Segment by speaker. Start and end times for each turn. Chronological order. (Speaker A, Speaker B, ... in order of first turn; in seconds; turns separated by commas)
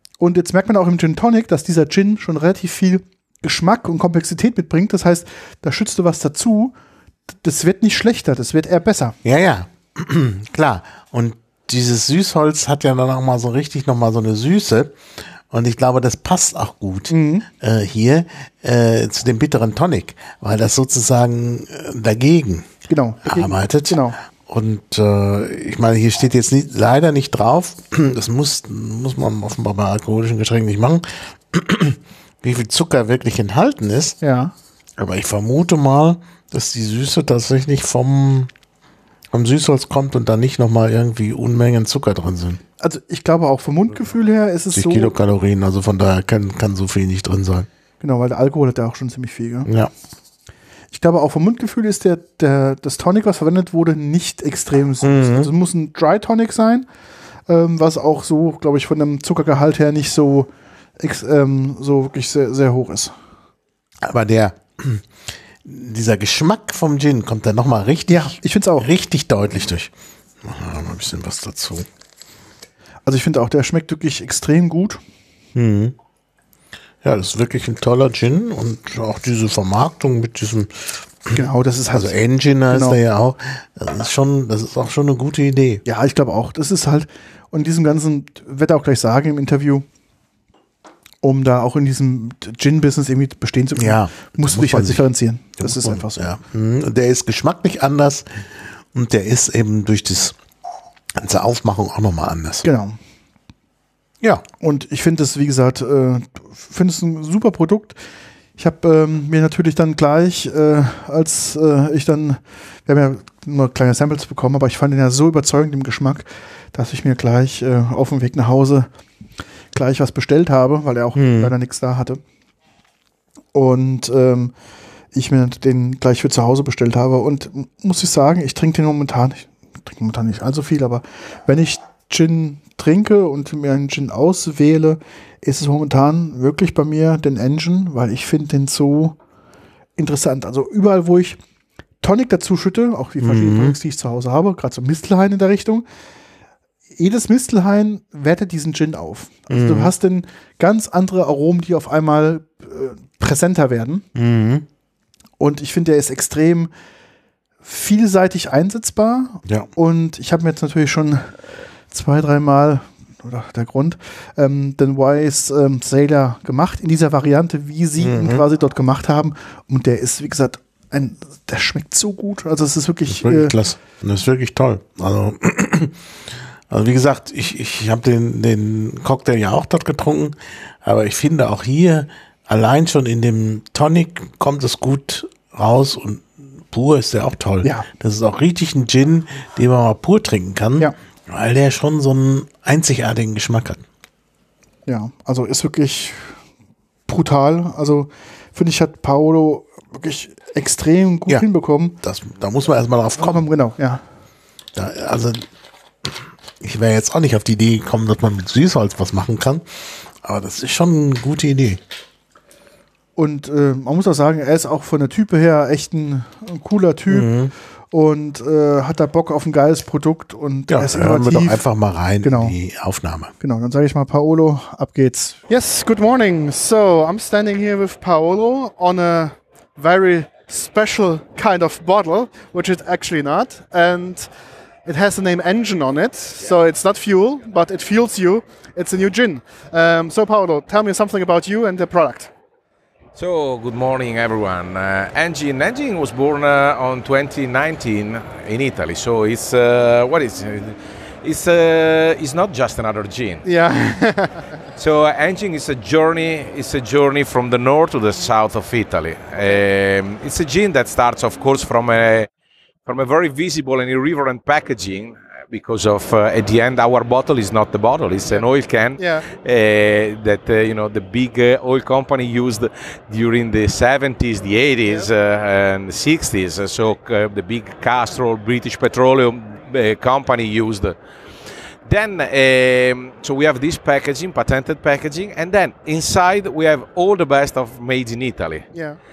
Speaker A: 0.2-6.7, Speaker A: 7.4-9.2, Speaker B: 9.2-15.0, Speaker B: 15.5-22.7, Speaker A: 17.1-17.5, Speaker A: 22.9-24.2, Speaker B: 23.2-34.2, Speaker A: 34.2-34.5, Speaker B: 35.0-38.5, Speaker B: 39.3-42.6, Speaker A: 42.8-45.1, Speaker B: 44.7-47.7, Speaker A: 48.0-49.7, Speaker B: 49.6-49.9, Speaker A: 50.9-56.9, Speaker B: 55.0-55.5, Speaker A: 57.5-63.1, Speaker B: 64.0-65.1, Speaker B: 65.6-69.9, Speaker A: 68.1-68.9, Speaker B: 70.4-71.8, Speaker A: 73.0-75.0, Speaker B: 75.5-76.0, Speaker B: 77.0-85.8, Speaker A: 81.3-82.2, Speaker A: 82.7-83.0, Speaker A: 85.8-89.8, Speaker A: 91.2-96.3, Speaker B: 93.8-95.1, Speaker B: 95.6-100.3, Speaker B: 101.2-102.7, Speaker A: 102.6-103.0, Speaker A: 104.6-108.0, Speaker A: 108.6-118.9, Speaker A: 119.7-122.2, Speaker B: 121.1-121.5, Speaker A: 123.5-124.5, Speaker A: 125.1-139.2, Speaker A: 140.0-141.4, Speaker A: 142.0-145.8, Speaker B: 143.2-143.8, Speaker A: 147.0-154.1, Speaker B: 149.5-149.9, Speaker B: 154.1-154.7, Speaker A: 155.4-156.7, Speaker A: 157.6-161.4, Speaker A: 161.9-173.6, Speaker B: 168.0-168.4, Speaker B: 173.1-193.8, Speaker A: 187.6-187.9, Speaker A: 194.9-196.3, Speaker A: 197.1-202.0, Speaker B: 202.0-203.4, Speaker A: 203.2-204.0, Speaker B: 204.7-205.5, Speaker B: 206.1-211.8, Speaker A: 213.2-217.3, Speaker B: 217.1-217.5, Speaker A: 217.9-221.6, Speaker B: 220.7-223.3, Speaker A: 222.2-222.6, Speaker A: 223.4-225.4, Speaker C: 225.5-234.3, Speaker C: 234.8-242.3, Speaker D: 243.2-253.4, Speaker C: 253.4-254.5, Speaker D: 254.8-262.3, Speaker D: 262.9-280.9, Speaker C: 268.2-269.3, Speaker D: 281.9-288.7, Speaker C: 288.7-289.0